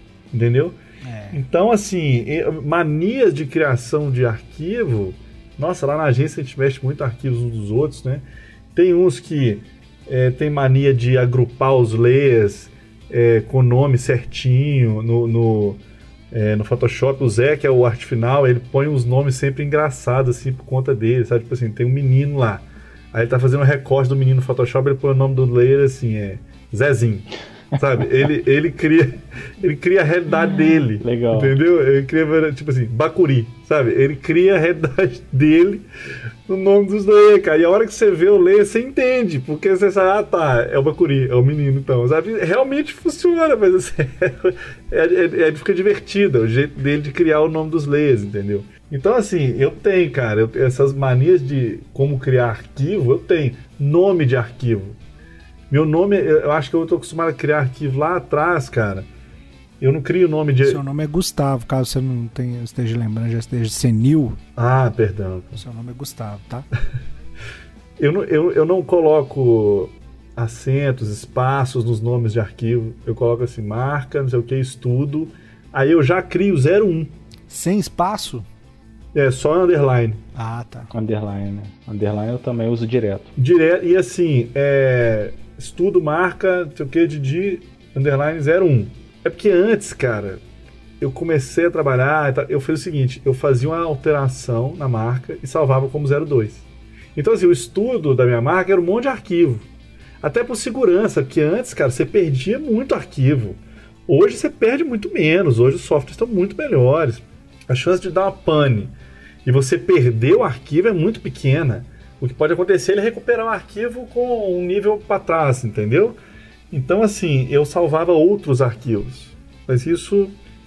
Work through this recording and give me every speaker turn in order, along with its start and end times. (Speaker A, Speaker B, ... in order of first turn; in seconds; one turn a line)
Speaker A: 0.3-0.8
Speaker B: 1.1-1.4
Speaker A: 1.3-35.9
Speaker C: 31.0-31.6
Speaker A: 36.5-55.0
Speaker A: 55.7-59.1
Speaker A: 59.8-60.8
Speaker B: 60.6-64.4
Speaker A: 64.6-65.6
Speaker B: 65.6-66.7
Speaker A: 68.0-77.1
Speaker B: 77.5-78.5
Speaker A: 79.1-80.2
Speaker B: 80.3-80.9
Speaker C: 80.9-83.3
Speaker A: 83.4-90.4
Speaker A: 91.0-99.7
Speaker A: 100.2-108.9
Speaker A: 109.5-116.2
Speaker A: 116.7-120.4